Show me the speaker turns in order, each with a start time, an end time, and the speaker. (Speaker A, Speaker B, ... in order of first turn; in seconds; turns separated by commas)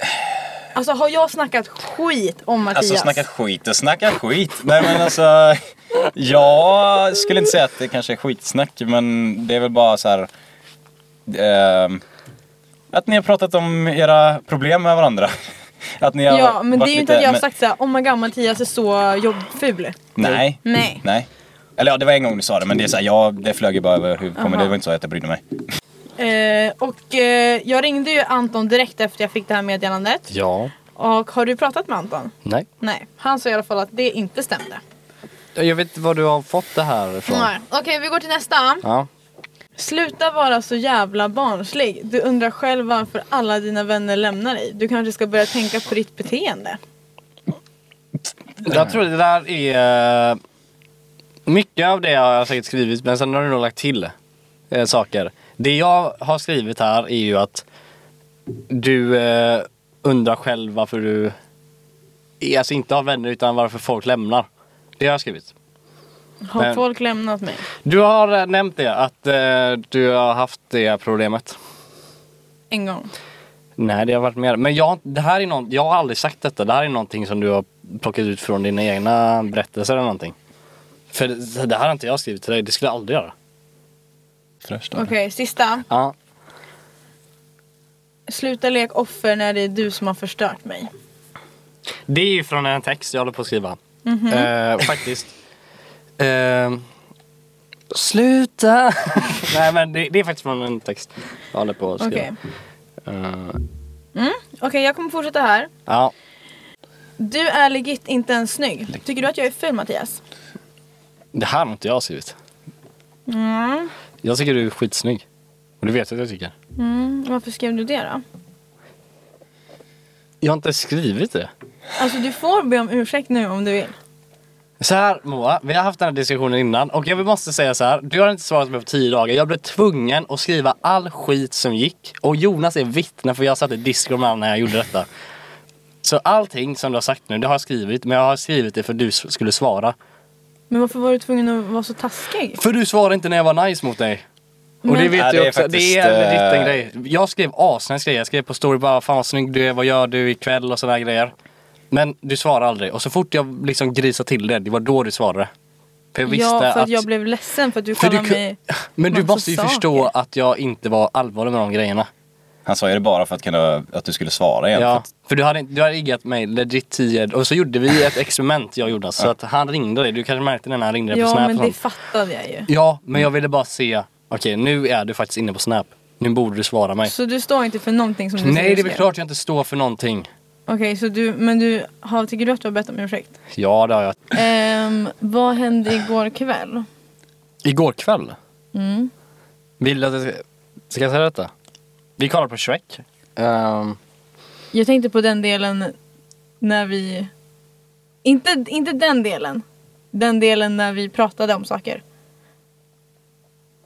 Speaker A: 0.7-3.2, Speaker B: 2.7-10.3, Speaker B: 11.3-12.0, Speaker B: 12.9-15.4, Speaker B: 15.9-17.4, Speaker A: 16.3-20.1, Speaker B: 20.2-25.4, Speaker A: 20.6-21.0, Speaker A: 24.4-24.8, Speaker A: 26.2-30.3, Speaker C: 30.3-30.7, Speaker A: 31.0-34.8, Speaker C: 35.6-37.5, Speaker A: 37.3-38.9, Speaker C: 38.8-39.1, Speaker A: 39.8-46.8, Speaker C: 48.6-50.4, Speaker B: 48.7-48.9, Speaker C: 51.5-54.1, Speaker C: 54.7-57.6, Speaker C: 58.7-61.4, Speaker C: 62.4-64.5, Speaker C: 65.0-65.5, Speaker A: 66.5-67.7, Speaker C: 67.8-71.6, Speaker A: 72.7-73.1, Speaker C: 73.8-80.3, Speaker C: 81.1-83.3, Speaker B: 84.6-85.1, Speaker A: 85.0-85.8, Speaker C: 85.9-86.1, Speaker A: 88.3-90.9, Speaker C: 92.1-93.8, Speaker A: 94.0-94.5, Speaker C: 94.3-95.3, Speaker C: 96.2-96.9, Speaker C: 97.9-102.3, Speaker A: 102.0-102.3, Speaker C: 103.1-103.6, Speaker A: 104.2-105.7, Speaker C: 105.9-106.1, Speaker A: 107.2-110.2, Speaker C: 111.3-112.3, Speaker A: 113.3-113.9, Speaker C: 114.2-115.2, Speaker C: 115.8-116.5, Speaker A: 116.8-118.2, Speaker C: 120.4-121.5, Speaker A: 122.0-124.0, Speaker C: 124.8-135.1, Speaker C: 136.0-139.9, Speaker A: 140.7-142.6, Speaker C: 142.6-144.2, Speaker A: 144.8-145.2, Speaker C: 144.8-151.3, Speaker B: 145.1-146.8, Speaker C: 151.9-155.5, Speaker C: 156.1-157.1, Speaker A: 156.3-158.6, Speaker C: 158.0-162.1, Speaker A: 159.1-160.1, Speaker B: 162.7-165.1, Speaker C: 164.8-171.8, Speaker A: 171.1-172.7, Speaker C: 172.7-177.1, Speaker A: 177.1-179.1, Speaker C: 178.4-180.3, Speaker A: 180.7-183.3, Speaker C: 183.6-184.3, Speaker A: 184.3-186.9, Speaker C: 187.6-188.4, Speaker A: 188.7-189.1, Speaker C: 189.8-191.5, Speaker C: 192.2-194.0, Speaker A: 194.7-195.9, Speaker A: 196.6-197.3, Speaker A: 198.2-202.0